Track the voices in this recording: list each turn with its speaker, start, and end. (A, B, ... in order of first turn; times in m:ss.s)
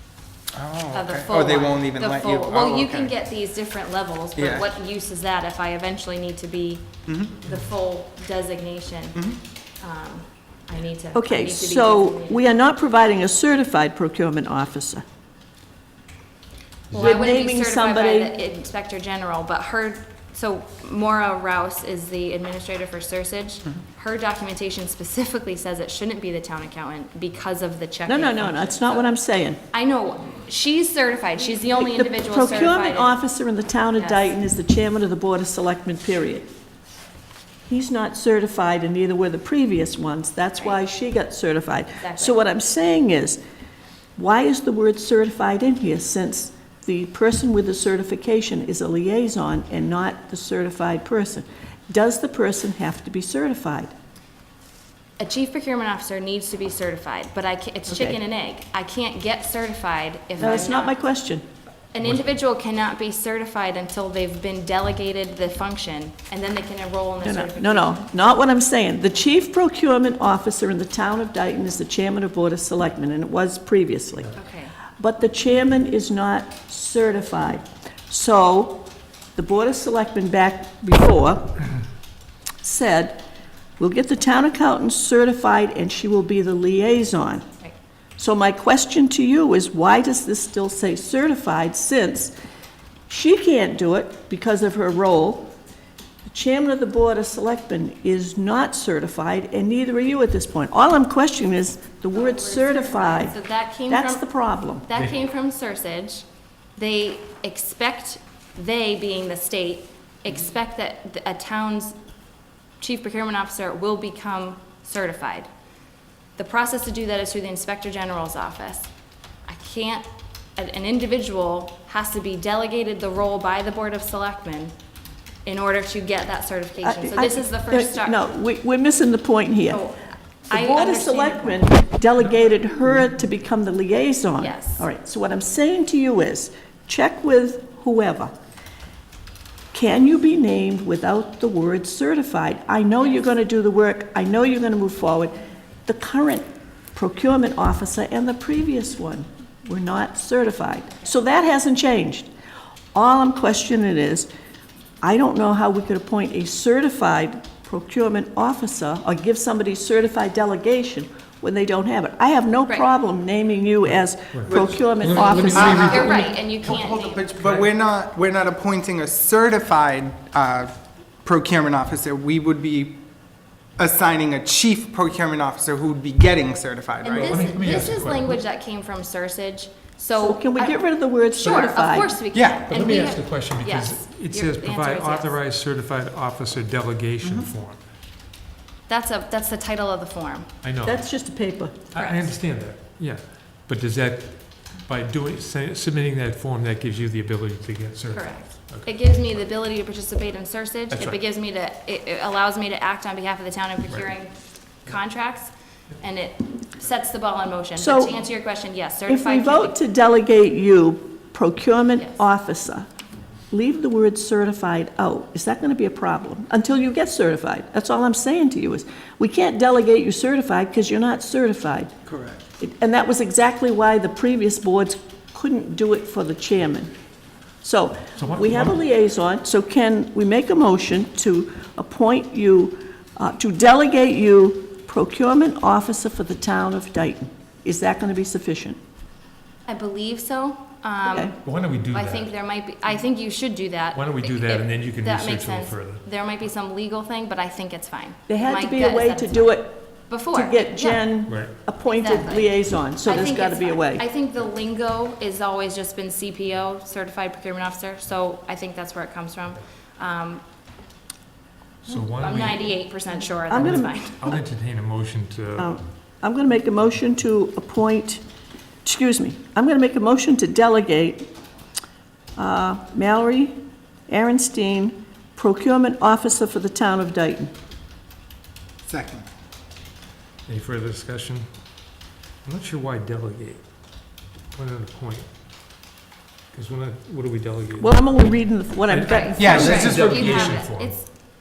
0:00.5-0:03.1 A
0:00.9-0:06.8 B
0:04.4-0:04.7 A
0:07.0-0:07.4 A
0:07.4-0:09.2 B
0:09.8-0:12.4 B
0:11.1-0:15.0 C
0:16.9-0:17.3 D
0:16.9-0:29.1 B
0:16.9-0:18.3 C
0:28.1-0:29.6 C
0:29.7-0:33.1 B
0:31.7-0:36.5 C
0:34.0-0:34.3 B
0:37.7-0:43.4 C
0:42.0-0:42.4 B
0:44.2-0:53.9 C
0:55.2-1:01.0 B
0:57.9-0:58.2 C
1:00.4-1:01.4 C
1:01.9-1:08.0 B
1:07.2-1:14.3 C
1:14.3-1:14.7 B
1:15.0-1:21.7 C
1:22.6-1:23.2 C
1:23.8-1:27.4 C
1:28.2-1:32.3 C
1:33.1-1:35.5 C
1:36.3-1:43.3 C
1:42.1-1:44.3 B
1:43.9-1:44.9 C
1:44.8-1:46.2 B
1:46.8-1:52.0 B
1:52.8-1:55.5 B
1:56.4-1:58.9 B
1:59.5-2:04.7 B
2:05.4-2:08.2 B
2:06.8-2:09.8 C
2:09.7-2:11.6 B
2:10.5-2:18.3 C
2:14.4-2:14.9 B
2:19.7-2:25.3 C
2:25.8-2:32.3 C
2:32.9-2:34.3 C
2:35.0-2:46.2 C
2:44.3-2:46.3 D
2:44.5-2:52.9 A
2:45.3-2:47.4 B
2:47.4-2:47.7 D
2:53.8-2:57.6 A
2:57.0-3:00.8 B
2:57.1-2:58.4 D
3:00.2-3:02.2 C
3:01.4-3:05.3 B
3:02.3-3:02.7 A
3:02.7-3:07.8 D
3:07.2-3:07.5 A
3:08.9-3:10.5 B
3:10.6-3:11.0 D
3:10.8-3:11.9 C
3:11.9-3:19.0 D
3:12.0-3:12.2 B
3:18.1-3:24.3 B
3:20.9-3:21.2 D
3:24.8-3:29.8 B
3:27.8-3:28.3 C
3:29.1-3:32.9 C
3:32.0-3:32.2 B
3:33.5-3:41.9 C
3:42.1-3:42.4 A
3:42.6-3:46.9 C
3:47.6-3:58.8 C
3:48.2-3:48.8 D
3:59.7-4:11.1 B
4:01.0-4:01.3 C
4:01.4-4:02.3 D
4:03.9-4:06.0 D
4:08.3-4:14.0 C
4:11.3-4:11.5 D
4:11.9-4:20.4 B
4:21.8-4:22.7 D
4:22.2-4:24.3 B
4:23.5-4:24.3 C
4:23.7-4:25.7 D
4:25.6-4:28.2 C
4:28.8-4:31.3 C
4:32.4-4:33.6 C
4:34.1-4:37.5 C
4:38.9-4:39.3 A
4:40.4-4:41.5 D
4:42.4-4:43.6 D
4:44.5-4:45.3 D
4:46.5-4:48.2 D
4:47.8-4:50.0 C
4:48.9-4:51.1 D
4:49.0-4:51.1 B
4:49.4-4:50.6 A